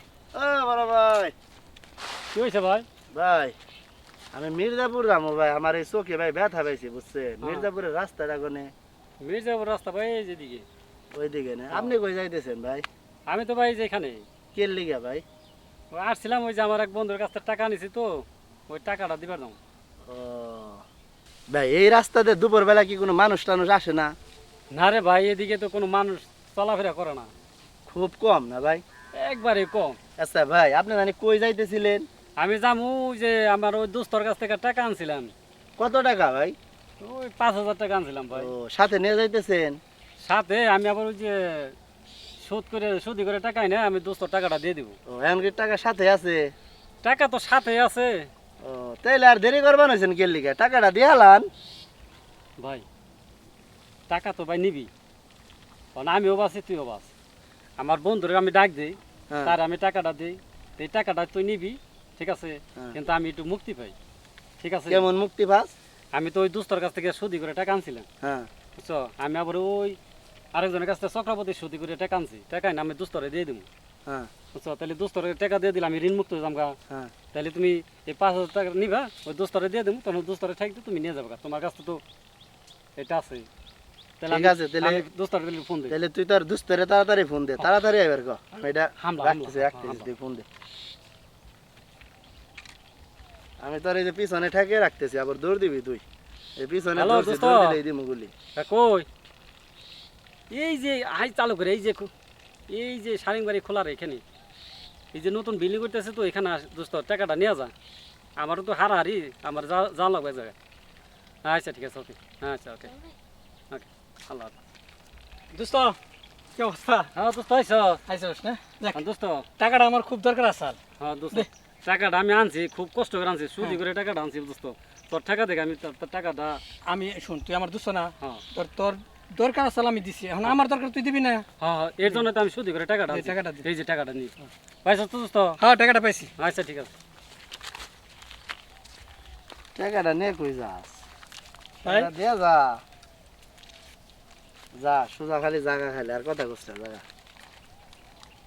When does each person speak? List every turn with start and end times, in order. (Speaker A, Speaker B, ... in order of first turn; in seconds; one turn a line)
Speaker A: 0.3-1.3
Speaker B: 2.3-2.9
Speaker A: 3.1-3.5
Speaker A: 4.3-8.7
Speaker B: 7.4-7.7
Speaker B: 9.2-10.7
Speaker A: 11.1-12.8
Speaker B: 13.3-14.2
Speaker A: 14.5-15.2
Speaker B: 15.9-19.6
Speaker A: 20.1-20.8
Speaker A: 21.5-24.1
Speaker B: 24.7-27.3
Speaker A: 27.9-28.8
Speaker B: 29.1-30.0
Speaker A: 30.2-32.0
Speaker B: 32.4-35.3
Speaker A: 35.8-36.5
Speaker B: 37.0-38.5
Speaker A: 38.3-39.8
Speaker B: 40.2-41.7
Speaker B: 42.4-45.0
Speaker A: 45.1-46.5
Speaker B: 47.0-48.3
Speaker A: 48.6-51.5
Speaker B: 52.6-52.8
Speaker B: 54.1-54.9
Speaker B: 55.9-57.1
Speaker B: 57.8-63.9
Speaker A: 59.3-59.5
Speaker B: 64.6-65.1
Speaker A: 64.9-65.7
Speaker B: 66.1-68.0
Speaker A: 68.2-68.5
Speaker B: 68.8-70.0
Speaker B: 70.5-73.7
Speaker B: 74.5-76.8
Speaker B: 77.3-82.0
Speaker B: 83.0-83.5
Speaker B: 84.2-86.0
Speaker A: 84.3-85.0
Speaker A: 85.9-90.5
Speaker B: 89.0-90.0
Speaker A: 93.6-96.0
Speaker A: 96.6-98.3
Speaker B: 97.0-97.8
Speaker B: 98.5-99.1
Speaker B: 100.5-102.1
Speaker B: 102.7-104.2
Speaker B: 105.1-107.7
Speaker B: 108.4-110.5
Speaker B: 111.4-113.0
Speaker B: 113.7-114.5
Speaker C: 115.5-116.0
Speaker C: 116.5-117.1
Speaker B: 117.1-118.0
Speaker C: 118.1-119.0
Speaker B: 118.9-119.5
Speaker C: 119.6-120.8
Speaker B: 121.0-126.6
Speaker C: 126.8-131.4
Speaker B: 131.6-134.3
Speaker C: 133.1-133.7
Speaker B: 134.8-135.6
Speaker C: 135.6-136.3
Speaker B: 136.4-136.9
Speaker A: 139.8-140.9
Speaker C: 141.8-142.1
Speaker A: 141.8-142.8
Speaker A: 144.7-147.0